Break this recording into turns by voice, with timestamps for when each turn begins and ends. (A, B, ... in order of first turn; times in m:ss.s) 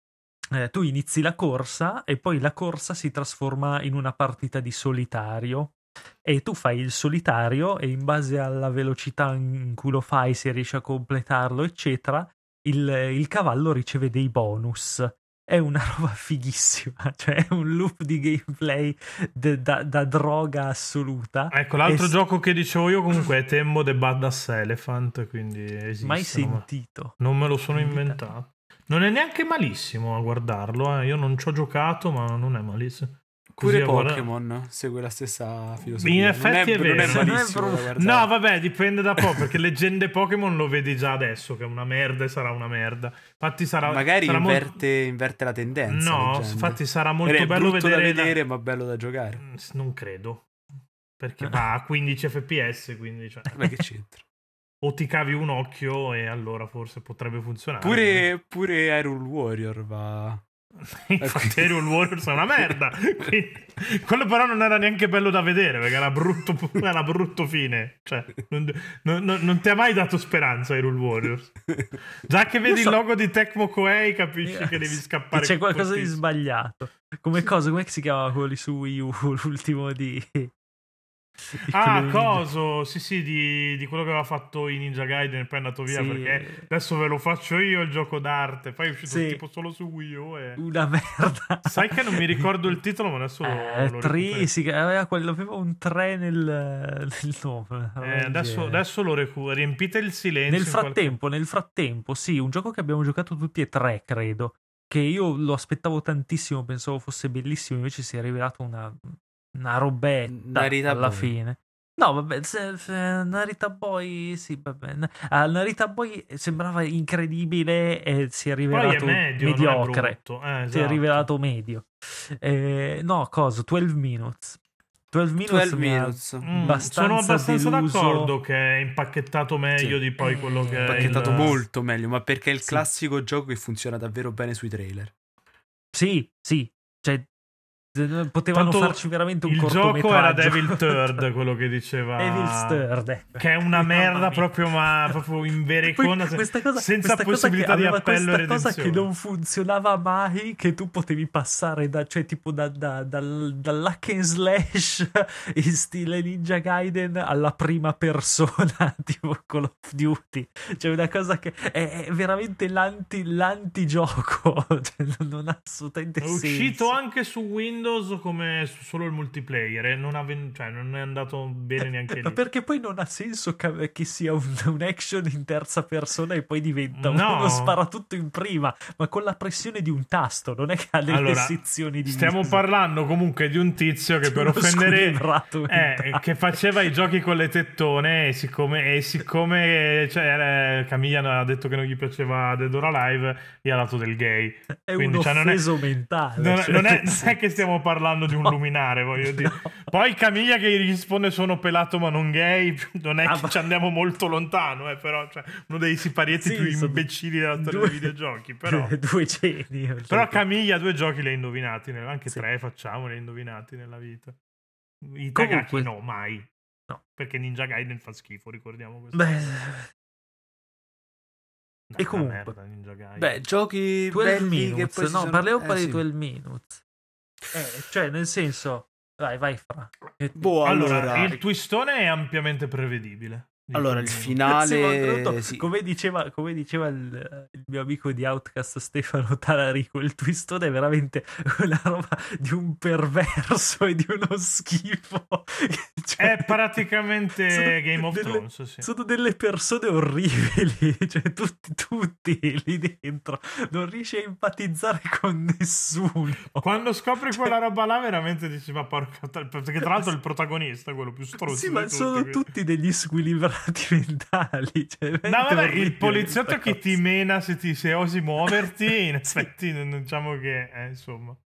0:00.5-0:22.1 A
0:21.5-0:26.6 B
0:26.0-0:27.2 A
0:27.2-0:34.3 B
0:27.7-0:28.2 A
0:33.6-0:38.3 C
0:36.0-0:37.4 B
0:37.0-0:37.9 A
0:37.9-0:44.7 B
0:43.8-0:49.4 C
0:45.9-0:48.4 B
0:49.4-0:50.5 B
0:51.2-0:53.6 B
0:53.5-0:54.2 C
0:54.8-0:58.3 B
0:57.8-1:00.4 C
1:00.8-1:16.2 B
1:01.2-1:01.9 C
1:12.7-1:13.0 A
1:14.4-1:20.5 A
1:21.4-1:22.4 A
1:21.7-1:30.6 B
1:25.9-1:26.7 A
1:29.0-1:29.4 A
1:30.6-1:32.4 A
1:31.6-1:34.5 B
1:33.4-1:38.8 A
1:38.0-1:41.2 B
1:40.5-2:00.2 A
1:50.3-1:51.3 C
1:58.7-2:01.3 B
2:00.7-2:04.6 A
2:05.1-2:08.3 A
2:05.4-2:06.8 C
2:06.4-2:11.6 B
2:10.2-2:11.6 A
2:10.8-2:15.1 C
2:15.9-2:17.3 A
2:17.9-2:21.2 A
2:18.5-2:22.8 B
2:22.2-2:25.2 A
2:23.4-2:29.1 B
2:25.8-2:47.0 A
2:46.2-2:52.4 B
2:51.8-3:02.6 A
2:56.9-2:57.8 B
3:01.1-3:15.6 B
3:04.2-3:06.2 A
3:14.8-3:17.4 A
3:16.4-3:28.9 B
3:18.3-3:18.5 A
3:19.2-3:19.8 A
3:23.2-3:23.6 A
3:26.4-3:28.1 A
3:28.6-3:30.4 A
3:30.1-3:34.4 B
3:35.0-3:36.5 B
3:35.4-3:35.9 A
3:37.2-3:39.5 B
3:39.1-3:39.9 A
3:41.9-3:43.3 B
3:42.0-3:42.5 A
3:43.2-3:46.0 C
3:44.1-3:46.8 A
3:47.5-3:51.3 A
3:50.4-3:51.4 C
3:50.6-3:54.4 B
3:53.7-3:55.7 C
3:54.5-4:06.6 A
4:06.2-4:08.9 B
4:07.5-4:16.8 A
4:16.6-4:22.5 B
4:21.4-4:27.0 A
4:25.2-4:31.4 B